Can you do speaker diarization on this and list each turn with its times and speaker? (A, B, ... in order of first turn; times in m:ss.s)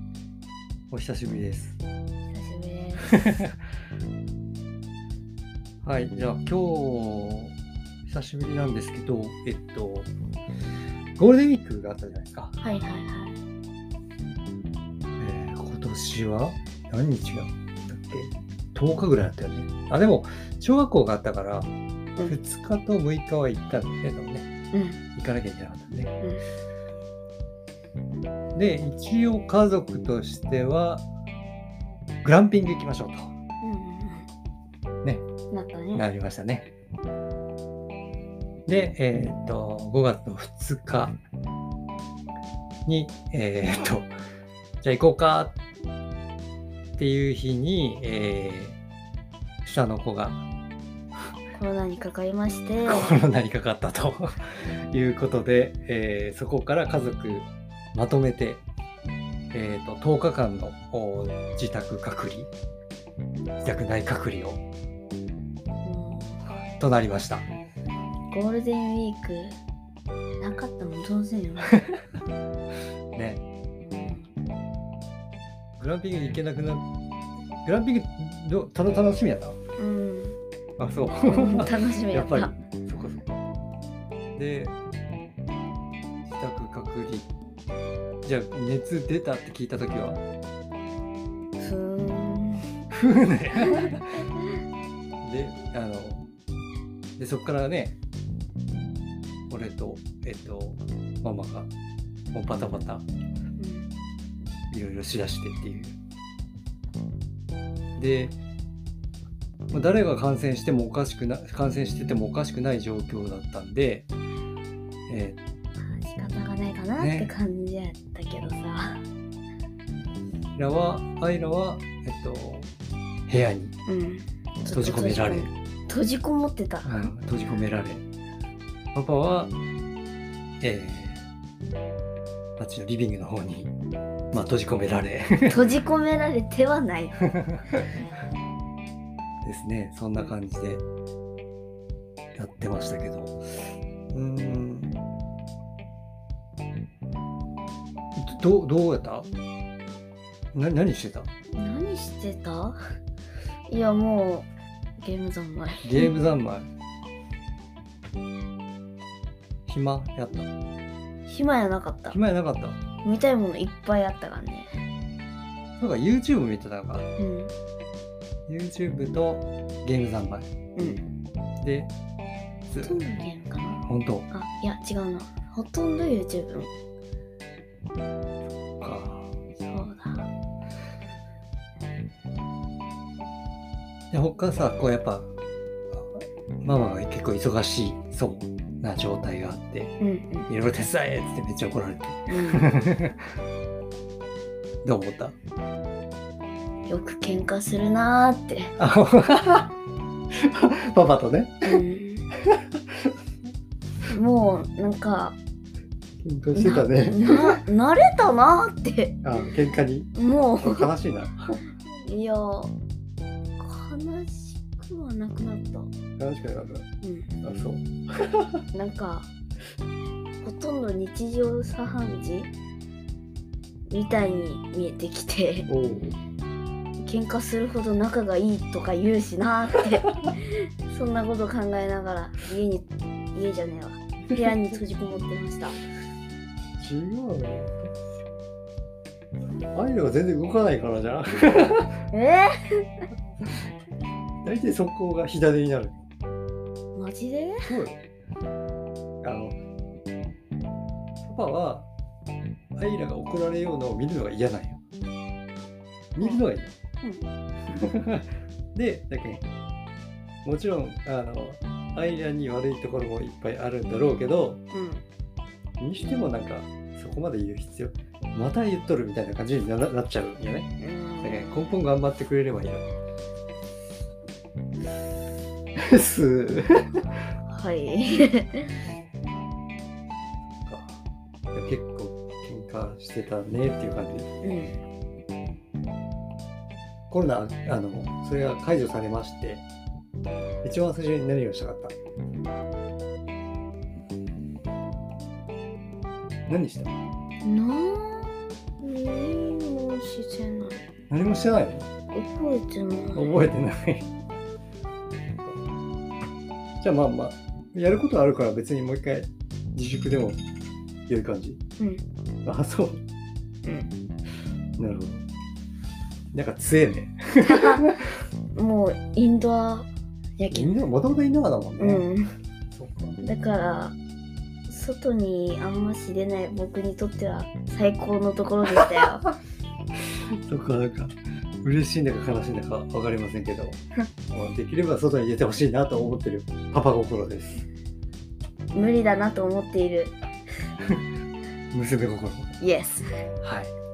0:00.9-0:01.8 A
0:02.2-0:03.4 B
0:03.1-0:03.4 A
0:05.8-0:07.5 A
0:08.0-0:10.1 A
0:11.2-0:12.5 A
0:12.6-0:13.4 B
0:15.2-0:21.7 A
0:22.2-0:24.5 A
0:24.7-0:25.0 B
0:25.2-0:26.1 A
0:28.5-0:31.0 A
0:32.2-0:33.3 A
0:33.6-0:34.3 B
0:35.5-0:36.0 B
0:35.9-0:36.7 A
0:38.7-0:41.2 A
0:42.8-0:44.1 A
0:44.8-0:45.6 A
0:47.0-0:48.8 A
0:49.6-0:50.4 A
0:51.6-0:53.1 B
0:52.8-0:58.6 A
0:59.5-1:02.5 A
1:03.6-1:04.6 A
1:05.8-1:06.6 B
1:06.8-1:07.5 A
1:08.3-1:09.6 B
1:10.4-1:11.8 B
1:13.1-1:13.4 A
1:13.8-1:14.3 B
1:15.8-1:16.8 A
1:17.6-1:19.6 A
1:19.8-1:20.4 B
1:20.8-1:23.3 A
1:21.2-1:22.6 B
1:24.3-1:24.7 A
1:26.2-1:27.3 A
1:28.2-1:30.2 A
1:31.6-1:32.7 B
1:32.9-1:34.2 A
1:35.2-1:36.3 A
1:37.2-1:38.0 A
1:39.5-1:41.7 A
1:42.3-1:43.0 A
1:43.6-1:43.9 B
1:44.7-1:46.0 A
1:48.0-1:48.3 A
1:49.7-1:54.1 A
1:55.1-1:55.4 A
1:55.8-1:59.0 B
1:57.0-1:57.3 A
2:00.6-2:02.7 A
2:03.3-2:03.7 A
2:03.9-2:07.1 B
2:04.7-2:05.5 A
2:06.8-2:08.0 A
2:08.9-2:09.5 A
2:10.6-2:11.2 A
2:12.6-2:13.7 A
2:14.3-2:15.8 A
2:15.5-2:17.3 B
2:19.4-2:20.8 A
2:22.4-2:23.4 A
2:24.1-2:25.0 A
2:28.2-2:29.3 A
2:30.5-2:31.3 A
2:31.6-2:32.8 B
2:33.7-2:34.5 B
2:35.0-2:36.1 B
2:35.8-2:36.7 A
2:39.7-2:40.5 A
2:41.2-2:42.2 B
2:42.1-2:42.8 A
2:43.0-2:44.7 B
2:45.8-2:47.1 A
2:47.2-2:47.5 B
2:48.5-2:50.5 A
2:50.8-2:51.0 B
2:51.6-2:51.9 A
2:52.7-2:53.0 A
2:52.8-2:56.7 B
2:53.8-2:54.3 A
2:58.8-2:59.3 A
2:59.6-3:00.3 B
3:04.1-3:05.3 A
3:05.9-3:09.9 A
3:10.0-3:10.5 B
3:10.5-3:13.2 A
3:12.3-3:12.7 B
3:14.8-3:15.3 A
3:16.9-3:18.7 B
3:18.8-3:19.7 A
3:20.3-3:21.8 A
3:21.6-3:22.2 B
3:22.4-3:23.1 A
3:24.1-3:25.4 B
3:26.2-3:27.6 A
3:26.5-3:29.2 B
3:29.2-3:31.6 A
3:30.1-3:30.9 B
3:32.0-3:32.7 B
3:33.6-3:35.9 B
3:36.2-3:36.9 A
3:37.0-3:37.4 B
3:37.4-3:38.6 A
3:38.7-3:39.3 B
3:40.4-3:42.5 B
3:43.9-3:45.7 B
3:45.7-3:46.2 A
3:47.0-3:55.8 B
3:56.8-3:58.0 A
3:59.7-4:01.9 A
4:02.1-4:02.9 B
4:04.4-4:06.0 A
4:06.9-4:07.6 B
4:07.6-4:08.0 A
4:09.2-4:09.6 A
4:11.2-4:11.9 A
4:12.8-4:14.8 A
4:16.1-4:16.7 A
4:17.7-4:19.4 A
4:20.4-4:24.6 A
4:24.7-4:25.0 B
4:25.8-4:30.7 A
4:30.8-4:31.8 B
4:31.2-4:32.9 A
4:35.8-4:37.1 A
4:37.5-4:38.8 B
4:40.6-4:41.0 A
4:41.5-4:44.3 A
4:44.4-4:44.8 B
4:47.1-4:49.6 A
4:50.6-4:51.9 A
4:56.5-4:56.9 A
4:57.4-5:00.8 B
5:01.1-5:01.9 A
5:02.1-5:03.3 B
5:03.1-5:04.1 A
5:06.8-5:10.4 A
5:11.1-5:11.6 A
5:12.4-5:13.0 A
5:14.8-5:15.2 A
5:16.3-5:18.0 A
5:17.4-5:17.8 B
5:18.5-5:19.9 B
5:20.4-5:20.8 B
5:20.5-5:22.0 A
5:21.8-5:22.3 B
5:22.7-5:23.2 A
5:23.2-5:23.9 B
5:24.7-5:29.3 B
5:30.4-5:33.8 A
5:34.3-5:37.6 A
5:38.7-5:40.2 B
5:41.7-5:42.5 A
5:42.6-5:43.1 B
5:43.4-5:43.7 A